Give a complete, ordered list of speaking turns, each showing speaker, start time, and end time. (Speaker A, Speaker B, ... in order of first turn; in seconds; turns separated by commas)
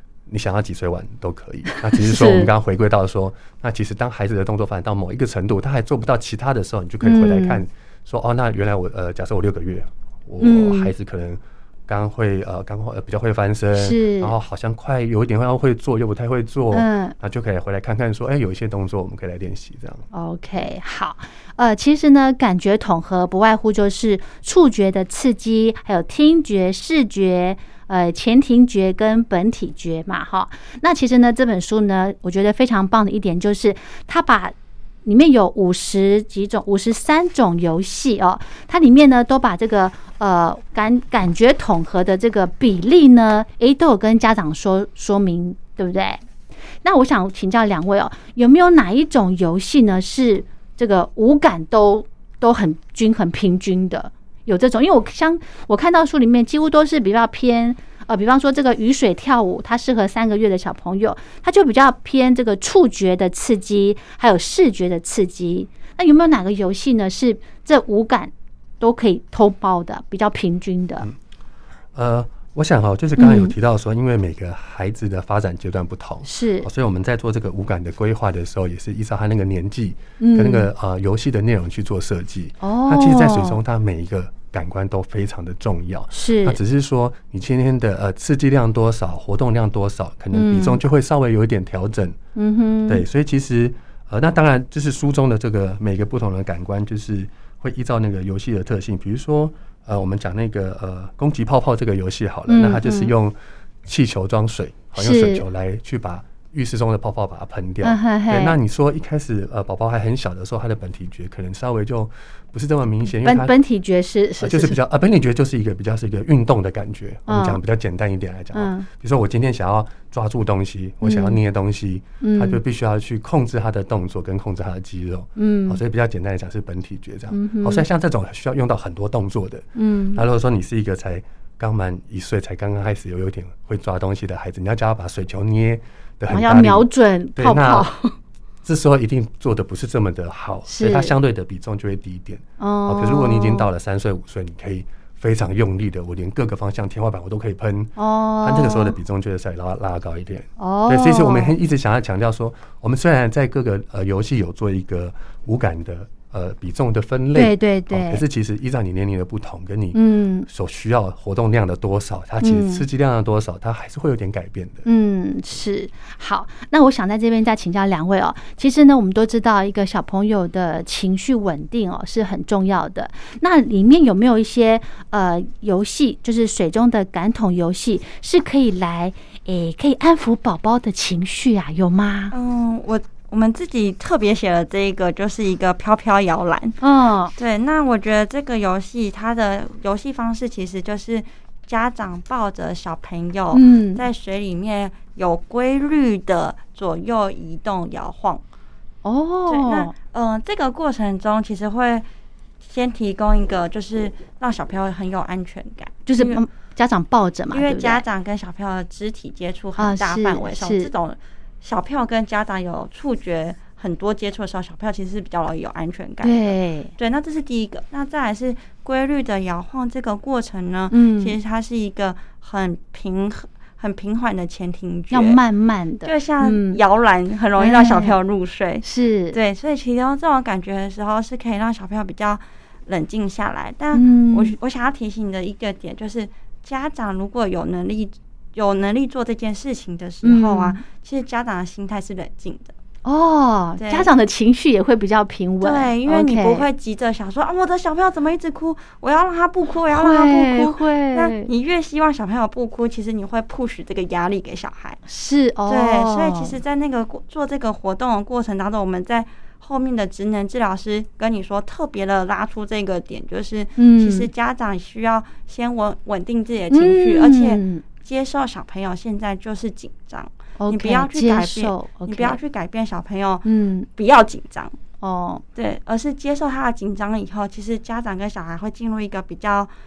Speaker A: 0.3-20.1, Speaker B: 1.7-2.5, Speaker B: 7.0-7.6, Speaker B: 10.4-10.9, Speaker B: 13.7-14.3, Speaker B: 16.7-17.1, Speaker B: 20.1-34.5, Speaker B: 35.0-46.2, Speaker B: 46.8-71.1, Speaker A: 71.9-92.2, Speaker B: 73.2-73.5, Speaker B: 76.2-76.7, Speaker B: 80.2-80.7, Speaker B: 82.6-83.6, Speaker B: 86.1-86.6, Speaker B: 90.3-90.8, Speaker B: 92.3-93.0, Speaker A: 92.9-113.5, Speaker B: 102.5-103.1, Speaker B: 105.0-105.4, Speaker B: 107.8-108.6, Speaker B: 113.1-114.8, Speaker A: 114.4-137.9, Speaker B: 117.3-117.6, Speaker B: 118.5-118.9, Speaker B: 121.0-121.4, Speaker B: 122.2-122.6, Speaker B: 125.4-125.8, Speaker B: 127.3-127.8, Speaker B: 129.7-130.2, Speaker B: 136.3-138.1, Speaker A: 138.6-164.8, Speaker B: 140.7-141.1, Speaker B: 142.6-143.7, Speaker B: 148.0-148.9, Speaker B: 150.6-151.5, Speaker B: 157.3-158.2, Speaker B: 159.9-160.5, Speaker B: 162.4-162.8, Speaker B: 164.8-182.3, Speaker C: 182.3-186.8, Speaker B: 186.8-187.3, Speaker C: 187.3-198.4, Speaker B: 193.5-194.0, Speaker B: 199.0-199.9, Speaker C: 199.5-202.1, Speaker C: 202.6-206.4, Speaker B: 206.1-208.0, Speaker C: 207.5-225.4, Speaker B: 209.8-210.9, Speaker B: 216.2-216.9, Speaker B: 220.9-221.3, Speaker B: 225.1-226.8, Speaker C: 226.0-242.7, Speaker B: 227.6-228.2, Speaker B: 228.8-229.4, Speaker B: 233.9-234.5, Speaker B: 240.2-240.8, Speaker B: 243.0-246.7, Speaker C: 243.8-244.1, Speaker C: 245.6-255.0, Speaker B: 249.9-251.5, Speaker B: 255.1-256.5, Speaker C: 255.7-274.8, Speaker B: 263.8-264.3, Speaker B: 266.7-267.8, Speaker B: 270.6-272.4, Speaker B: 273.4-273.9, Speaker B: 275.0-275.4, Speaker C: 275.5-279.7